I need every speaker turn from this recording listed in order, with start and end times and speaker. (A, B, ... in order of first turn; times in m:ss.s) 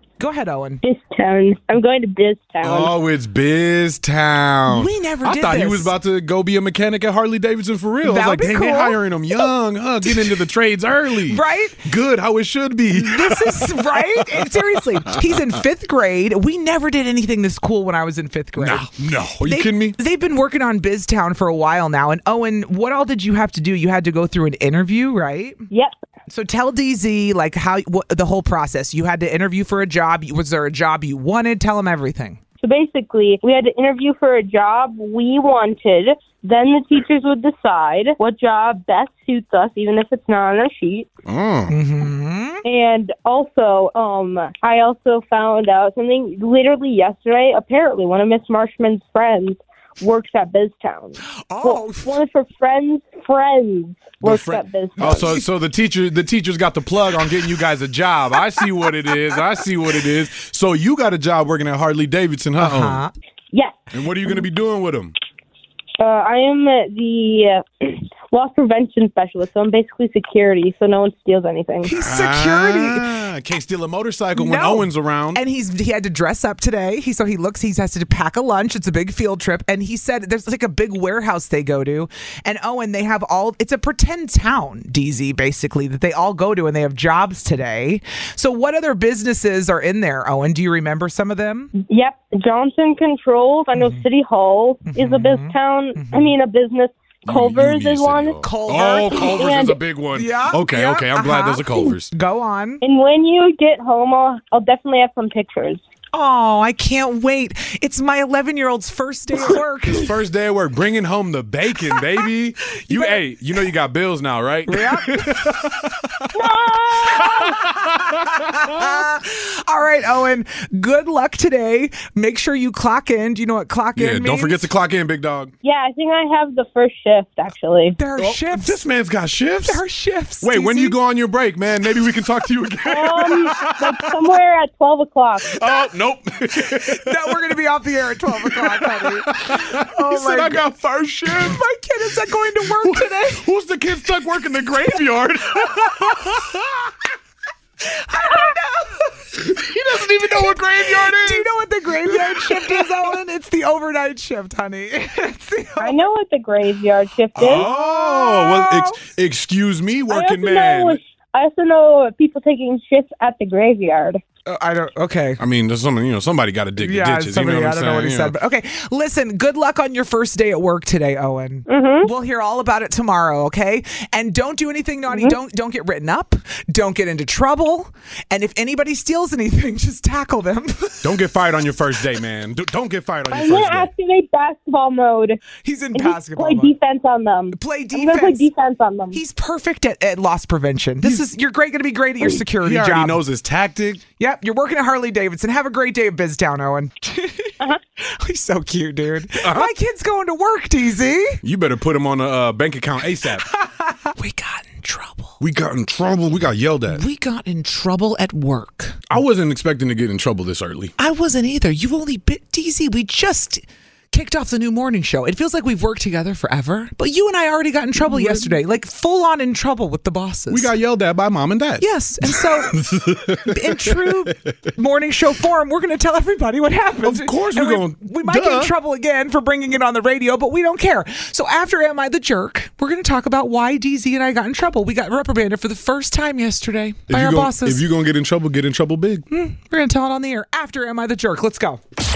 0:00.2-0:00.8 A
0:00.8-0:02.9 B
0:02.6-0:14.5 C
0:04.7-0:05.9 A
0:08.0-0:09.0 A
0:10.1-0:10.3 A
0:11.3-0:11.8 A
0:13.0-0:18.9 A
0:18.6-0:20.0 C
0:19.4-0:25.6 A
0:26.3-0:32.4 A
0:32.6-0:41.1 B
0:41.3-0:41.8 C
0:41.7-0:42.6 A
0:42.6-0:55.3 B
0:51.2-0:52.2 A
0:54.2-1:03.0 C
0:55.0-0:55.5 A
1:02.6-1:03.1 A
1:03.5-1:03.9 B
1:03.9-1:05.1 C
1:06.0-1:11.9 B
1:11.8-1:13.1 A
1:11.9-1:15.4 C
1:14.4-1:31.7 A
1:31.8-1:39.8 B
1:33.8-1:34.0 A
1:34.9-1:36.4 A
1:37.2-1:42.1 C
1:38.4-1:42.8 A
1:42.8-1:45.8 B
1:46.1-1:50.1 A
1:49.9-1:56.3 C
1:52.9-1:53.2 A
1:54.7-1:55.5 A
1:56.3-1:57.6 B
1:57.0-1:59.0 C
1:57.0-2:04.6 A
2:04.0-2:05.5 C
2:05.6-2:08.0 B
2:08.0-2:08.8 A
2:08.2-2:09.8 C
2:09.6-2:11.0 A
2:10.4-2:14.3 C
2:12.9-2:15.6 B
2:15.4-2:17.3 C
2:16.7-2:20.6 A
2:18.3-2:21.6 C
2:21.3-2:23.4 A
2:22.6-2:26.9 C
2:27.8-2:29.1 A
2:29.4-2:31.5 C
2:31.0-2:36.0 A
2:32.0-2:32.9 C
2:35.8-2:37.7 B
2:37.4-2:41.0 C
2:37.4-2:38.9 A
2:40.1-2:44.2 B
2:44.5-2:45.4 A
2:45.4-2:48.4 C
2:46.8-3:01.1 A
2:51.7-2:52.1 B
2:55.1-2:55.4 B
3:01.0-3:03.9 C
3:03.3-3:05.4 B
3:05.6-3:06.8 A
3:05.9-3:09.2 B
3:07.5-3:08.5 A
3:09.1-3:13.2 A
3:12.3-3:14.0 C
3:14.2-3:21.4 A
3:19.4-3:19.7 C
3:21.4-3:23.5 C
3:23.5-3:25.4 A
3:25.4-3:27.0 C
3:26.9-3:29.1 A
3:29.1-3:30.9 C
3:31.0-3:40.7 A
3:38.0-3:38.6 C
3:40.5-3:44.4 C
3:41.8-3:42.7 A
3:43.4-3:57.8 A
3:47.0-3:48.7 C
3:57.1-3:59.2 C
3:59.3-4:01.8 A